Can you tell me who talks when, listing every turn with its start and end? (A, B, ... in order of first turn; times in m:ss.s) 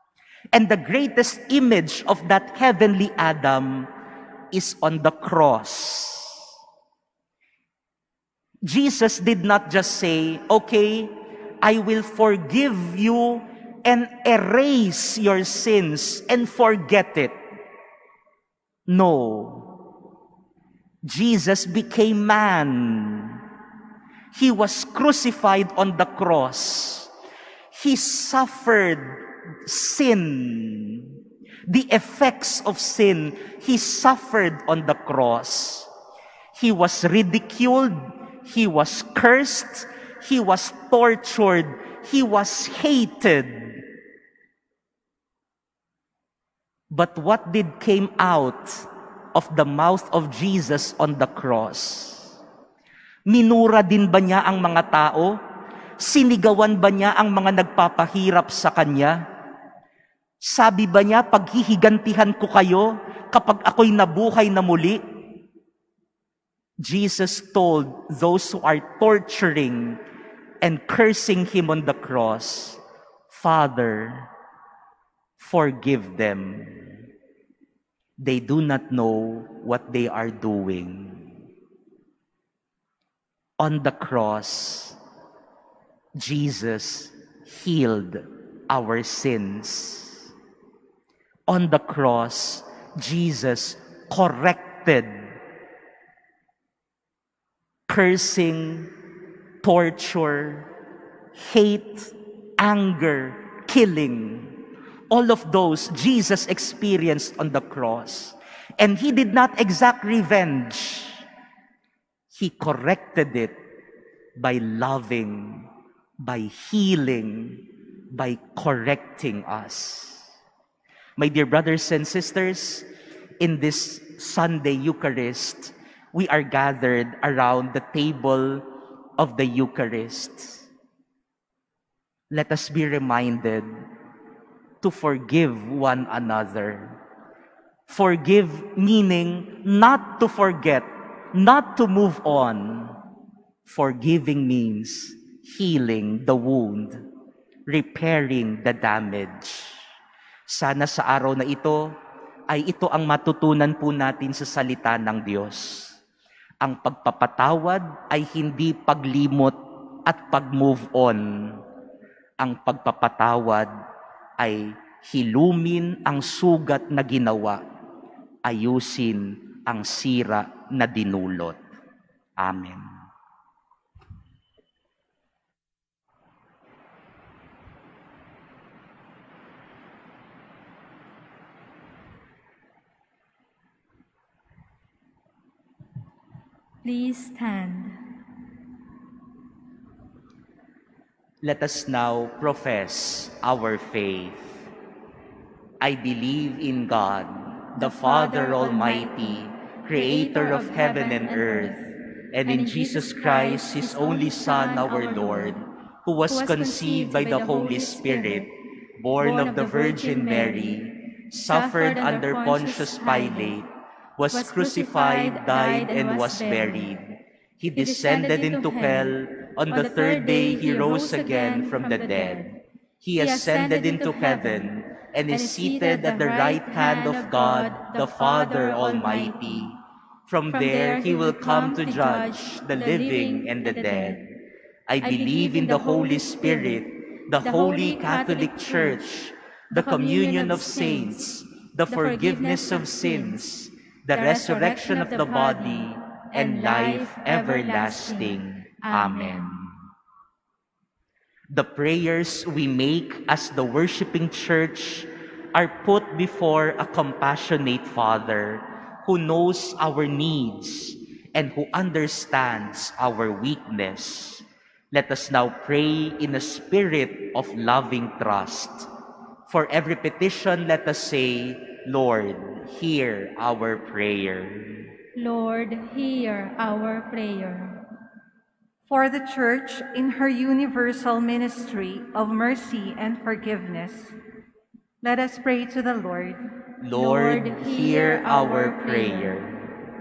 0:00.5-0:03.9 A
0:04.5-0:06.5 A
0:08.6-0:17.4 A
0:18.9-0:19.7 A
0:21.0-0:23.4 A
0:24.3-0:27.1 A
0:27.7-0:35.9 A
0:36.5-0:43.8 A
0:46.9-0:52.4 A
0:53.3-0:55.4 A
0:56.0-0:59.2 A
1:00.4-1:05.0 A
1:06.8-1:10.0 A
1:10.6-1:14.3 A
1:15.4-1:16.9 A
1:18.2-1:21.3 A
1:23.6-1:25.0 A
1:26.2-1:30.3 A
1:31.5-1:35.3 A
1:37.9-1:38.9 A
1:39.6-1:40.7 A
1:41.3-1:44.6 A
1:45.1-1:51.2 A
1:52.3-1:53.6 A
1:54.4-1:55.7 A
1:56.2-2:00.3 A
2:01.2-2:02.9 A
2:03.4-2:08.6 A
2:09.2-2:10.7 A
2:12.3-2:13.7 A
2:14.8-2:17.0 A
2:17.9-2:23.0 A
2:23.6-2:27.0 A
2:27.7-2:29.8 A
2:30.5-2:31.9 A
2:32.5-2:36.0 A
2:36.6-2:41.6 A
2:42.4-2:43.7 A
2:44.4-2:47.6 A
2:48.4-2:51.6 A
2:52.4-2:52.9 A
3:06.8-3:08.0 B
3:11.4-3:14.7 A
3:15.8-3:21.8 A
3:17.8-3:21.9 B
3:22.3-3:54.2 A
3:22.4-3:25.6 B
3:26.3-3:28.5 B
3:29.2-3:30.9 B
3:31.4-3:33.6 B
3:34.3-3:37.0 B
3:37.8-3:39.2 B
3:39.7-3:42.6 B
3:43.2-3:44.7 B
3:45.3-3:49.7 B
3:50.5-3:54.2 B
3:54.9-4:09.8 A
3:55.0-3:56.8 B
3:57.4-3:59.0 B
3:59.7-4:01.3 B
4:01.9-4:03.4 B
4:04.1-4:09.6 B
4:11.5-4:28.9 A
4:29.5-4:34.9 A
4:35.2-4:37.8 B
4:38.9-4:44.1 C
4:45.0-4:46.4 C
4:46.8-4:49.6 A
4:46.9-4:49.3 B